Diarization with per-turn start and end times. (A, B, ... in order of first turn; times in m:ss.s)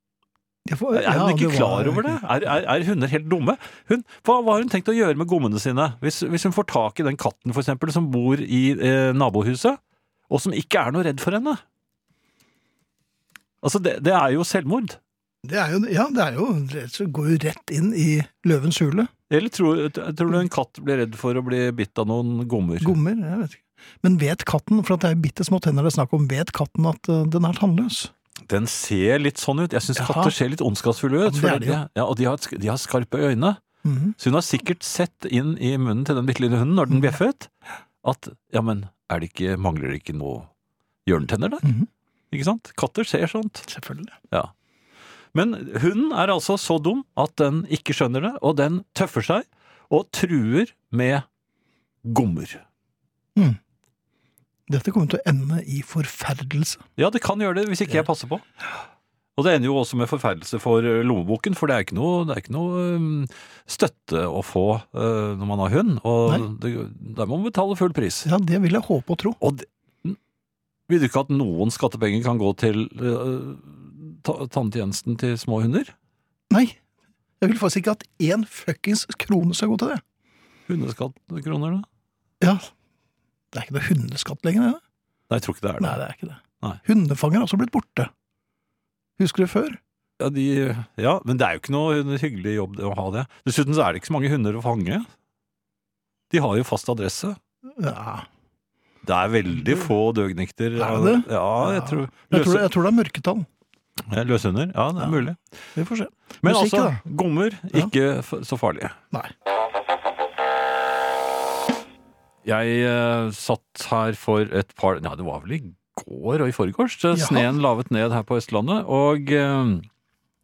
0:00.6-0:02.2 A
0:00.9-0:09.8 B
0:10.3-0:11.6 B
0:13.6-0:15.0 B
0:15.4-0:19.1 A
0:19.3-0:23.0 B
0:22.8-0:28.1 A
0:28.5-0:33.6 B
0:30.0-0:30.3 A
0:31.2-0:31.8 A
0:33.8-0:34.2 A
0:34.2-0:37.5 B
0:38.0-0:40.5 B
0:41.0-0:41.7 B
0:41.6-0:41.9 A
0:42.3-0:43.7 B
0:43.7-0:44.1 A
0:45.3-0:51.2 B
0:52.0-0:52.6 B
0:54.7-0:56.8 A
0:57.0-0:58.4 B
0:59.4-1:08.3 B
1:08.2-1:09.4 A
1:09.4-1:10.2 B
1:10.9-1:15.9 B
1:16.5-1:16.8 A
1:17.4-1:20.0 A
1:20.7-1:21.8 B
1:22.4-1:22.7 A
1:23.5-1:24.8 A
1:25.3-1:26.0 B
1:25.8-1:28.1 A
1:29.2-1:29.8 A
1:30.2-1:35.0 B
1:36.3-1:37.4 B
1:37.8-1:38.2 A
1:39.0-1:42.7 B
1:40.8-1:43.5 A
1:44.1-1:45.4 B
1:45.0-1:45.2 A
1:45.8-1:47.0 A
1:46.4-1:49.0 B
1:52.4-1:59.9 B
1:57.1-1:57.5 A